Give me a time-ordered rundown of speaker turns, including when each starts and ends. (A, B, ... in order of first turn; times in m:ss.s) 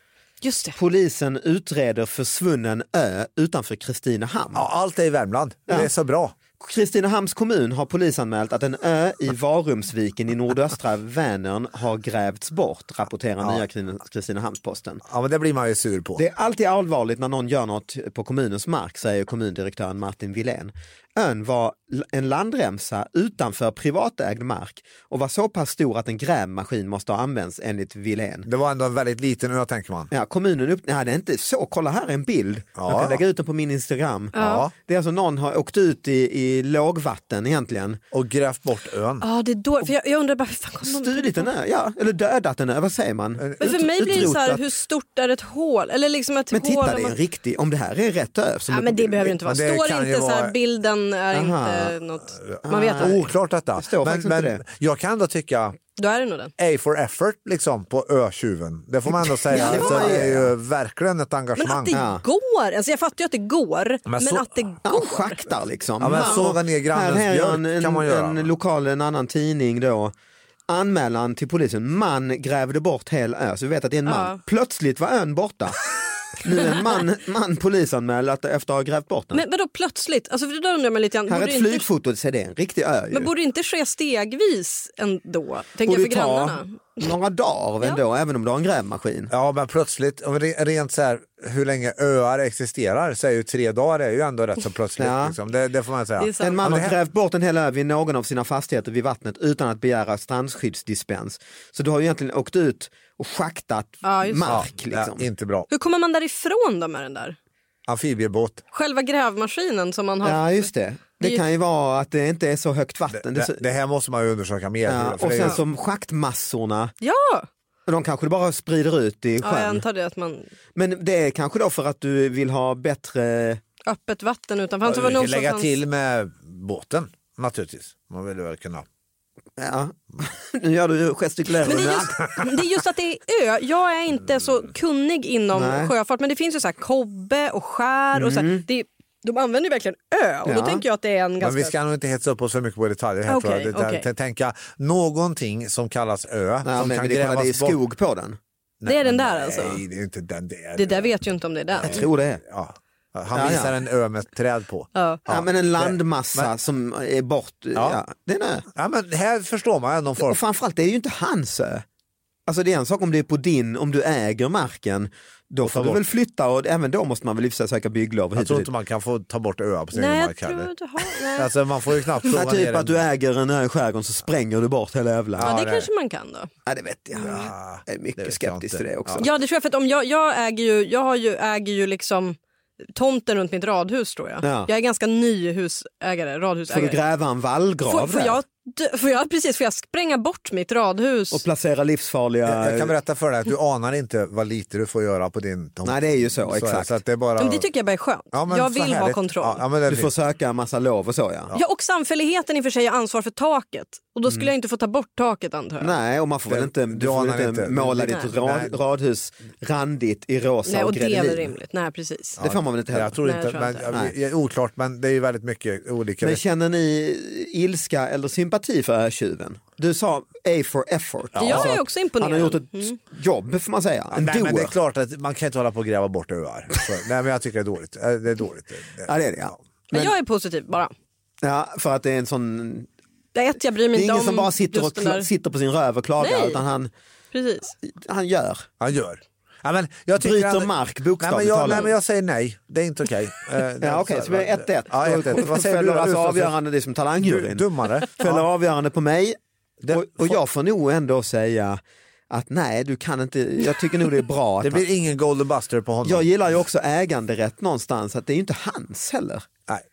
0:00.4-0:00.8 A
0:00.8-0:04.6 B
0:04.5-0:06.3 C
0:06.6-0:15.0 B
0:15.0-0:16.2 C
0:16.2-0:28.5 B
0:28.4-0:30.1 C
0:30.1-0:38.0 B
0:32.8-0:33.2 C
0:34.3-0:34.6 A
0:34.4-0:34.7 C
0:38.1-0:39.2 C
0:39.2-0:41.5 A
0:40.8-0:44.6 B
0:43.4-0:44.3 C
0:43.6-0:47.2 A
0:46.5-0:49.4 B
0:48.7-0:53.2 A
0:49.4-0:50.5 C
0:51.3-0:52.0 B
0:52.5-0:55.8 C
0:52.6-0:54.6 B
0:56.0-0:56.5 A
0:56.6-1:02.0 C
0:59.5-1:00.5 B
0:59.5-1:00.2 A
1:01.6-1:05.4 A
1:01.9-1:02.2 B
1:04.1-1:04.7 C
1:04.8-1:10.1 B
1:06.0-1:08.5 C
1:06.1-1:06.4 A
1:10.7-1:15.8 B
1:14.1-1:14.4 A
1:16.4-1:19.4 B
1:19.3-1:21.8 A
1:21.3-1:23.3 B
1:23.1-1:26.8 A
1:25.8-1:29.3 B
1:29.3-1:37.0 C
1:35.0-1:35.4 B
1:36.2-1:36.6 A
1:36.4-1:45.3 B
1:44.0-1:44.6 A
1:44.4-1:45.7 C
1:45.7-1:47.4 A
1:47.9-1:48.6 C
1:48.7-1:50.5 A
1:50.2-1:53.6 B
1:53.1-1:55.6 C
1:54.8-1:56.9 B
1:57.0-1:57.5 A
1:57.9-1:59.8 B
1:59.4-2:00.5 A
2:00.7-2:03.6 B
2:03.8-2:05.7 A
2:04.8-2:08.8 C
2:09.6-2:12.2 B
2:11.6-2:21.8 A
2:15.5-2:15.9 B
2:18.1-2:18.6 B
2:20.4-2:20.8 B
2:21.4-2:27.8 C
2:23.3-2:24.0 A
2:26.6-2:28.4 B
2:28.8-2:31.2 C
2:28.8-2:29.8 A
2:30.8-2:32.0 A
2:31.8-2:36.5 C
2:31.8-2:32.4 B
2:33.3-2:33.8 B
2:34.9-2:35.2 A
2:35.3-2:38.6 B
2:37.7-2:38.0 C
2:38.7-2:40.4 C
2:40.2-2:41.8 B
2:42.5-2:48.7 B
2:45.6-2:46.0 C
2:48.3-2:53.0 C
2:49.9-2:51.5 A
2:52.3-2:55.5 B
2:55.3-2:55.9 C
2:55.4-2:56.5 A
2:56.6-2:59.3 B
2:57.2-2:57.4 A
2:57.2-2:59.2 C
2:59.2-3:02.4 A
3:02.9-3:07.0 A
3:04.4-3:04.7 B
3:06.7-3:08.4 B
3:07.9-3:11.4 A
3:11.3-3:12.9 B
3:12.4-3:17.7 C
3:15.8-3:16.9 B
3:17.4-3:19.6 A
3:18.3-3:20.1 C
3:19.9-3:21.5 B
3:21.5-3:25.9 A
3:25.8-3:31.5 B
3:26.5-3:28.8 C
3:30.7-3:32.4 A
3:32.4-3:36.4 C
3:32.4-3:33.2 B
3:33.2-3:33.9 A
3:36.2-3:44.7 B
3:41.3-3:41.8 C
3:41.4-3:43.0 A
3:44.1-3:49.6 C
3:49.0-3:50.1 B
3:49.9-3:50.9 A
3:51.4-3:52.9 B
3:53.3-3:55.3 A
3:53.9-3:56.9 B
3:56.2-3:56.6 A
3:57.3-3:57.7 A
3:57.8-3:58.7 B
3:58.8-4:06.5 C
4:00.2-4:01.9 B
4:03.8-4:07.6 B
4:07.2-4:08.5 C
4:08.2-4:09.4 B
4:09.8-4:10.4 C
4:09.9-4:14.8 B
4:14.6-4:16.3 C
4:16.0-4:19.5 B